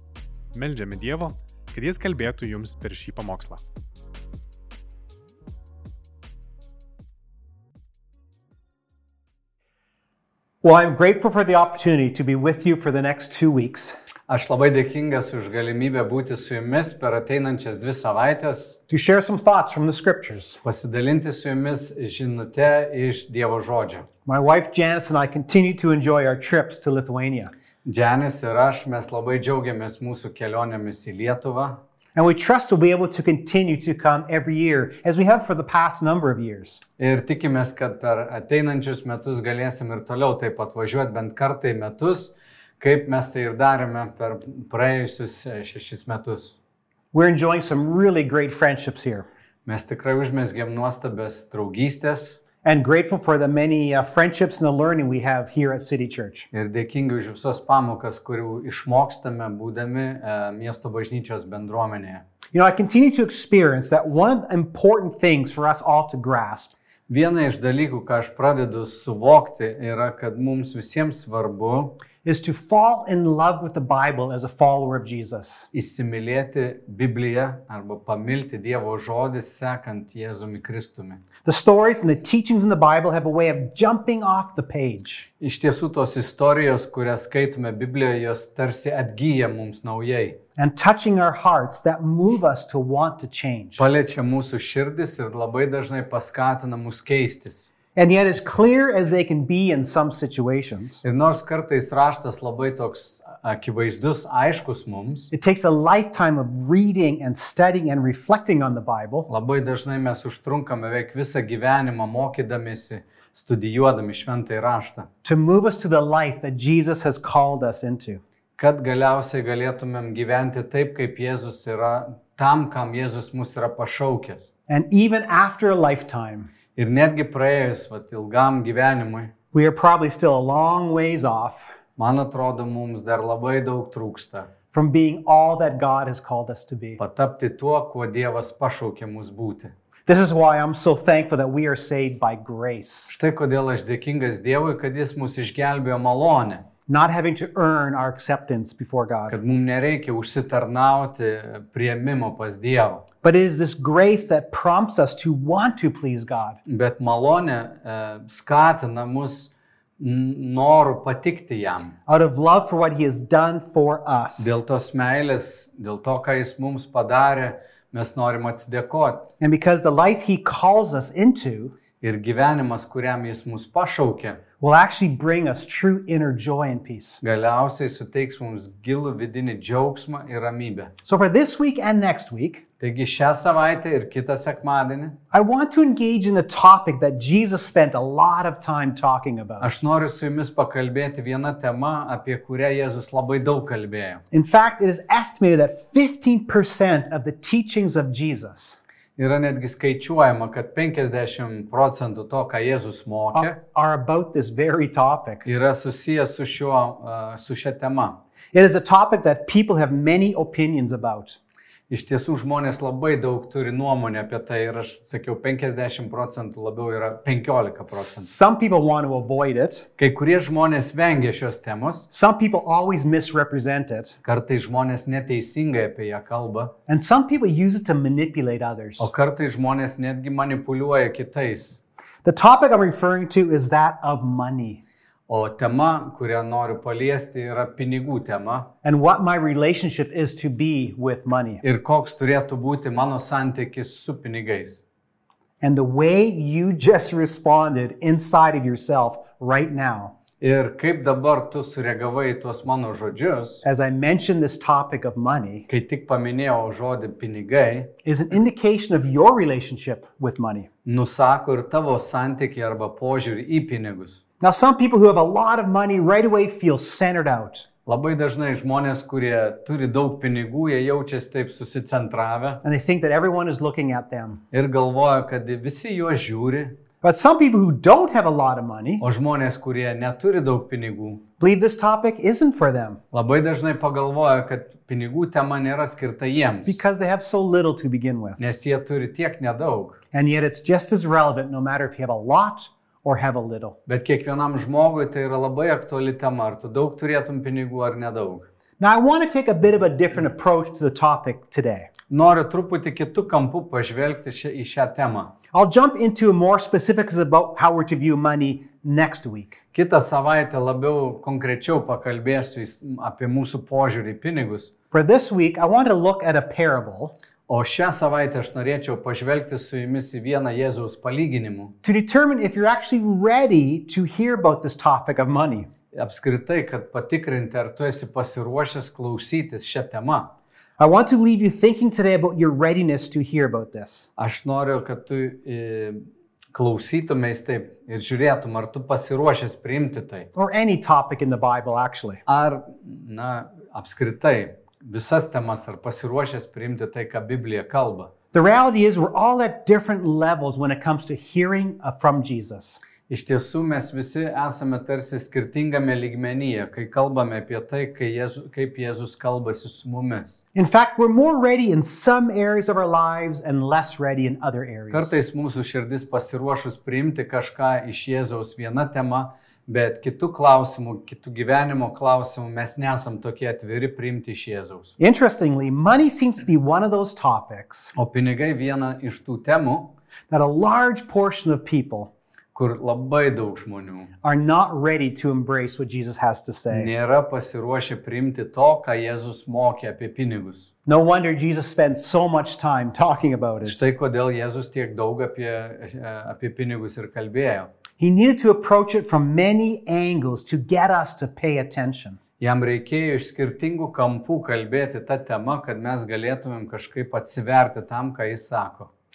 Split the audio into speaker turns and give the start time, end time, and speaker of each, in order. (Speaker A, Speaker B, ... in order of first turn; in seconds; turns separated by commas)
Speaker A: 0.5-3.6, Speaker B: 10.6-13.9, Speaker C: 14.3-18.8, Speaker B: 18.9-20.6, Speaker C: 20.6-24.1, Speaker B: 24.2-27.5, Speaker C: 27.8-31.8, Speaker B: 32.1-36.8, Speaker C: 37.0-46.5, Speaker B: 47.1-49.2, Speaker C: 49.6-52.4, Speaker B: 52.6-56.5, Speaker C: 56.5-62.2, Speaker B: 62.5-66.7, Speaker C: 67.1-72.0, Speaker B: 72.2-75.7, Speaker C: 75.7-81.2, Speaker B: 81.4-85.3, Speaker C: 85.4-90.4, Speaker B: 90.5-93.8, Speaker C: 93.8-97.7, Speaker B: 97.9-101.0, Speaker C: 101.0-105.3, Speaker B: 105.3-109.3, Speaker C: 109.3-115.1, Speaker B: 115.2-118.2, Speaker C: 118.6-124.5, Speaker B: 124.7-126.5, Speaker C: 126.8-129.3, Speaker B: 129.5-131.7, Speaker C: 132.0-134.5, Speaker B: 134.7-137.0, Speaker C: 137.0-139.7, Speaker B: 140.1-143.1, Speaker C: 143.1-146.7, Speaker B: 146.9-149.3, Speaker C: 149.3-153.0, Speaker B: 153.2-156.6, Speaker C: 156.7-161.9, Speaker B: 162.1-164.6, Speaker C: 164.4-169.3, Speaker B: 169.4-171.7, Speaker C: 172.0-174.4, Speaker B: 174.6-177.2, Speaker C: 177.2-180.9, Speaker B: 181.0-182.6, Speaker C: 182.8-185.2, Speaker B: 185.3-189.7, Speaker C: 189.6-194.2, Speaker B: 194.3-198.8, Speaker C: 199.2-203.6, Speaker B: 203.3-205.4, Speaker C: 205.4-208.2, Speaker B: 208.5-211.4, Speaker C: 211.9-218.3, Speaker B: 217.9-219.8, Speaker C: 220.0-222.1, Speaker B: 222.1-224.2, Speaker C: 224.2-226.7, Speaker B: 226.9-229.1, Speaker C: 229.0-231.8, Speaker B: 232.2-234.8, Speaker C: 235.3-238.7, Speaker B: 238.8-241.6, Speaker C: 241.6-244.8, Speaker B: 245.6-250.1, Speaker C: 250.4-253.6, Speaker B: 253.6-255.7, Speaker C: 255.7-257.9, Speaker B: 258.0-260.7, Speaker C: 260.8-264.2, Speaker B: 264.4-267.6, Speaker C: 267.9-272.6, Speaker B: 272.6-274.4, Speaker C: 274.5-276.8, Speaker B: 277.0-279.0, Speaker C: 279.0-281.2, Speaker B: 281.4-283.0, Speaker C: 283.1-286.8, Speaker B: 286.6-288.4, Speaker C: 288.4-290.0, Speaker B: 290.1-293.8, Speaker C: 293.9-298.5, Speaker B: 298.8-301.9, Speaker C: 302.1-305.3, Speaker B: 305.5-309.6, Speaker C: 309.7-314.7, Speaker B: 314.9-317.1, Speaker C: 317.5-321.7, Speaker B: 321.8-325.7, Speaker C: 325.9-330.3, Speaker B: 330.8-334.1, Speaker C: 334.2-340.3, Speaker B: 340.3-342.2, Speaker C: 342.3-348.1, Speaker B: 348.3-352.8, Speaker C: 353.1-360.4, Speaker B: 360.5-365.2, Speaker C: 364.9-374.9, Speaker B: 375.0-377.9, Speaker C: 377.9-379.9, Speaker B: 380.3-382.1, Speaker C: 382.5-384.1, Speaker B: 384.2-386.9, Speaker C: 386.7-390.7, Speaker B: 390.9-393.8, Speaker C: 393.6-397.7, Speaker B: 398.0-402.2, Speaker C: 402.4-408.9